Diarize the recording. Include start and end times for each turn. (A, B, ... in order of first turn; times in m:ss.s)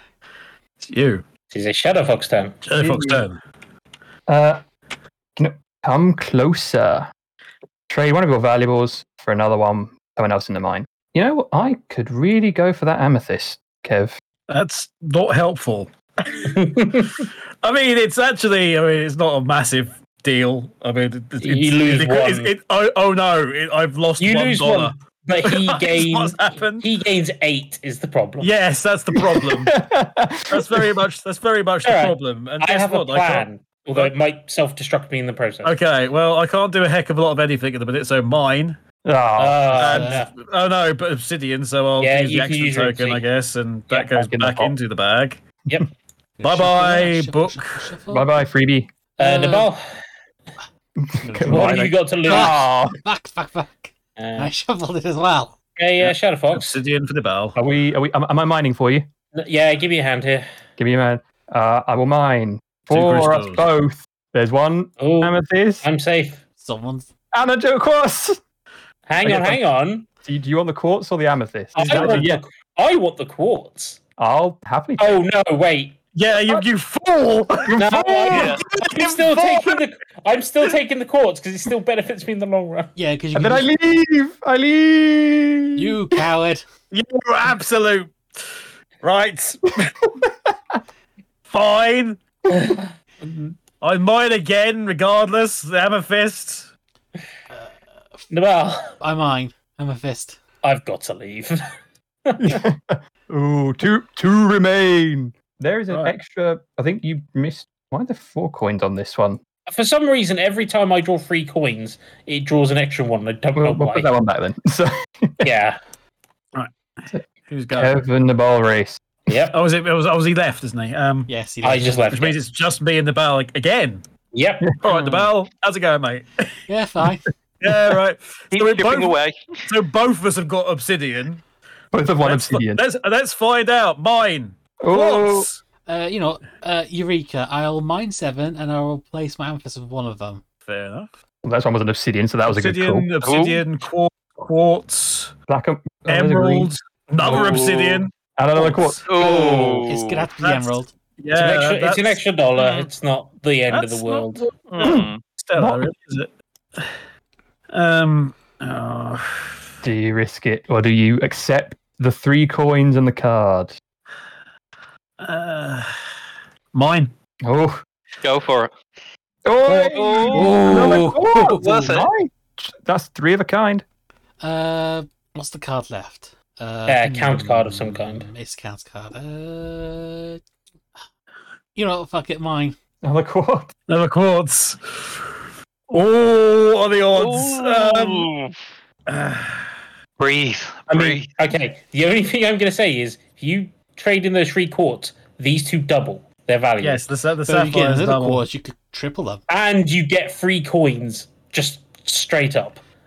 0:00.8-0:01.2 A
0:01.5-0:02.6 B
0:02.6-0:03.4 A
0:02.8-0:03.3 C
0:04.3-0:04.6 C
0:05.4-0:07.1 C
0:07.9-0:14.2 C
0:14.5-0:26.9 A
0:16.5-0:17.3 B
0:21.4-0:22.5 B
0:24.2-0:28.5 B
0:28.4-0:29.8 A
0:29.2-0:31.0 C
0:30.5-0:34.1 A
0:31.8-0:35.8 B
0:35.6-0:38.8 A
0:39.0-0:39.8 C
0:39.4-0:40.3 B
0:39.7-0:45.4 A
0:39.9-0:40.2 D
0:42.0-0:43.3 B
0:43.9-0:44.2 B
0:44.1-0:44.7 C
0:46.4-0:48.4 D
0:46.4-0:47.9 A
0:48.1-0:48.9 C
0:49.2-0:49.8 B
0:49.2-0:49.7 D
0:51.0-0:53.0 C
0:51.2-0:55.6 D
0:51.5-0:52.7 B
0:54.2-0:54.5 B
0:55.8-0:56.7 B
0:56.0-0:57.6 A
0:57.6-0:59.1 C
0:59.4-1:00.4 B
1:00.8-1:05.8 C
1:02.9-1:03.7 A
1:05.0-1:06.4 B
1:06.6-1:07.1 D
1:07.3-1:08.4 C
1:09.1-1:10.1 B
1:09.2-1:09.6 A
1:10.2-1:12.4 C
1:11.8-1:12.3 A
1:11.8-1:14.0 B
1:14.2-1:15.2 C
1:15.0-1:16.0 B
1:16.2-1:19.8 A
1:16.3-1:16.7 C
1:17.8-1:22.9 B
1:18.3-1:18.6 E
1:23.0-1:23.7 D
1:23.4-1:26.0 C
1:25.8-1:26.6 D
1:26.9-1:28.5 A
1:29.0-1:29.9 A
1:30.0-1:30.8 C
1:31.5-1:32.2 A
1:33.2-1:36.7 A
1:37.5-1:38.3 D
1:38.3-1:38.9 B
1:39.0-1:40.4 D
1:40.6-1:41.6 B
1:42.3-1:42.6 B
1:42.4-1:49.4 C
1:49.7-1:54.1 B
1:53.6-1:55.5 C
1:55.4-1:55.8 B
1:56.5-1:58.0 A
1:57.1-1:59.0 C
1:59.3-1:59.6 B
1:59.5-2:01.3 A
2:01.3-2:02.1 D
2:01.6-2:02.4 B
2:02.1-2:04.0 A
2:04.3-2:04.7 B
2:04.8-2:06.5 A
2:06.7-2:07.3 D
2:07.6-2:09.2 A
2:08.5-2:09.7 E
2:09.7-2:11.4 A
2:11.9-2:12.8 C
2:12.2-2:15.6 A
2:14.8-2:15.5 C
2:15.9-2:20.4 D
2:20.7-2:21.1 A
2:21.4-2:23.1 C
2:22.5-2:25.4 A
2:23.2-2:23.6 E
2:25.5-2:26.7 C
2:26.1-2:29.8 A
2:27.2-2:28.0 E
2:27.2-2:27.7 C
2:28.4-2:29.0 C
2:29.0-2:30.3 E
2:29.8-2:30.9 D
2:30.4-2:32.9 A
2:31.4-2:34.4 B
2:33.7-2:36.9 A
2:34.7-2:35.2 E
2:34.8-2:35.9 C
2:37.7-2:39.5 A
2:39.8-2:43.8 C
2:45.2-2:45.9 A
2:46.7-2:47.1 A
2:47.4-2:47.8 C
2:48.2-2:48.7 E
2:49.4-2:53.8 C
2:49.7-2:52.1 E
2:50.1-2:51.2 A
2:50.5-2:51.9 D
2:54.4-3:00.4 D
2:56.9-2:58.3 B
3:01.8-3:02.8 D
3:03.0-3:03.7 C
3:03.9-3:05.4 A
3:05.9-3:08.3 A
3:07.1-3:08.6 E
3:09.1-3:09.7 A
3:10.2-3:11.3 E
3:10.9-3:17.0 B
3:16.8-3:18.5 A
3:17.5-3:19.4 D
3:19.5-3:22.8 B